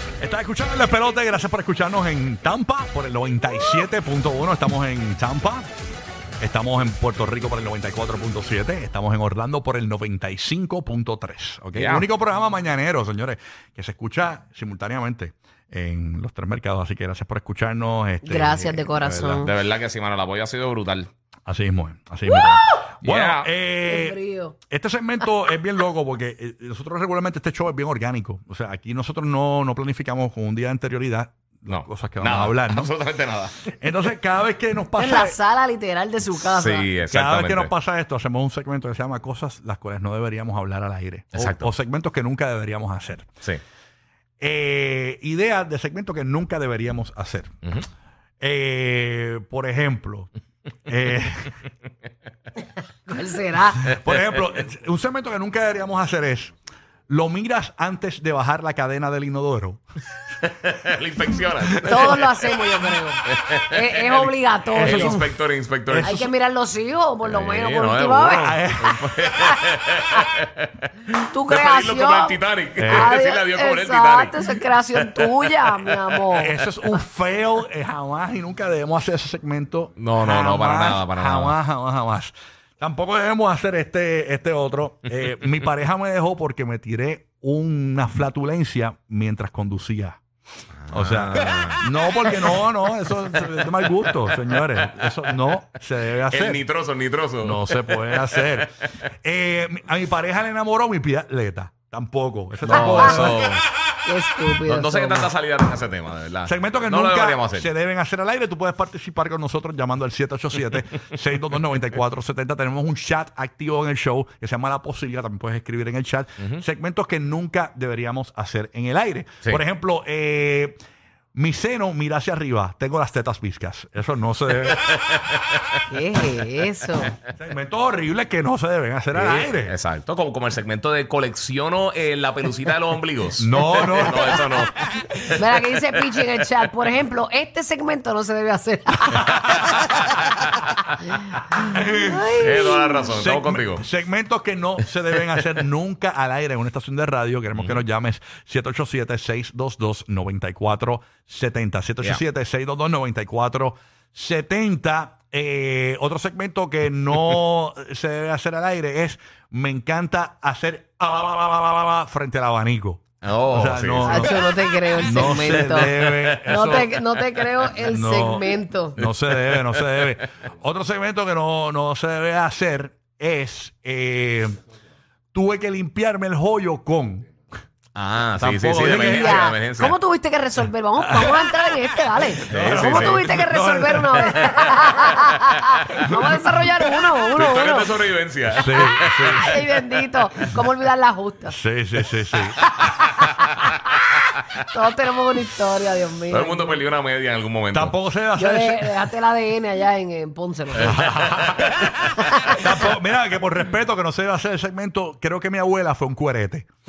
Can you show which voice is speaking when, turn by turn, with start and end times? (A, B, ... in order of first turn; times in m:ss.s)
0:00.2-0:05.6 A
0:06.4-0:19.5 A
0:11.7-0:12.1 B
0:18.2-0:19.5 C
0:19.4-0:21.1 B
0:21.4-0:24.2 A
0:23.0-0:23.5 B
0:23.8-0:24.6 C
0:24.7-0:32.9 A
0:31.7-0:33.7 B
0:33.7-0:35.4 A
0:35.0-0:36.9 C
0:36.3-0:37.7 B
0:37.1-0:43.3 A
0:41.3-0:41.7 B
0:44.4-0:47.5 A
0:48.4-0:50.3 A
0:50.9-0:51.6 A
0:53.1-0:54.0 C
0:53.8-0:56.5 A
0:57.1-0:59.8 A
1:00.4-1:02.3 B
1:01.7-1:02.2 A
1:01.8-1:05.2 C
1:03.3-1:06.2 B
1:04.7-1:05.3 A
1:05.9-1:06.3 A
1:06.0-1:08.6 C
1:07.2-1:10.9 B
1:08.4-1:09.3 A
1:11.3-1:16.5 C
1:11.4-1:15.9 B
1:12.8-1:13.1 A
1:16.3-1:30.2 A
1:20.0-1:21.6 B
1:30.9-1:32.6 B
1:30.9-1:36.6 A
1:33.4-1:33.6 B
1:34.7-1:35.1 B
1:36.3-1:38.9 B
1:37.4-1:43.5 A
1:42.7-1:43.3 C
1:42.7-1:43.6 B
1:44.0-1:45.3 C
1:44.6-1:47.7 B
1:46.4-2:00.8 A
2:01.3-2:04.8 A
2:04.7-2:05.6 B
2:05.9-2:07.2 C
2:07.3-2:09.8 A
2:09.1-2:16.2 B
2:13.4-2:14.4 A
2:15.3-2:19.6 C
2:19.2-2:19.8 A
2:19.6-2:20.0 B
2:21.5-2:23.1 C
2:21.7-2:22.5 A
2:22.4-2:23.8 B
2:23.1-2:46.9 A
2:27.5-2:27.8 B
2:43.2-2:44.4 B
2:44.0-2:45.9 C
2:45.9-2:47.1 B
2:46.4-2:49.0 C
2:47.8-2:54.6 A
2:49.0-2:49.8 B
2:55.3-2:57.3 A
2:57.9-3:00.0 B
2:58.4-2:59.5 A
2:58.8-3:07.9 C
3:01.0-3:04.5 A
3:02.4-3:03.2 B
3:04.3-3:05.8 B
3:07.4-3:09.4 B
3:08.5-3:09.6 A
3:08.7-3:11.6 C
3:11.5-3:12.6 A
3:12.6-3:14.1 C
3:14.7-3:16.8 C
3:16.3-3:17.9 B
3:17.7-3:19.0 A
3:18.4-3:21.1 C
3:20.8-3:22.1 B
3:20.8-3:21.8 A
3:22.0-3:22.7 C
3:22.5-3:26.7 A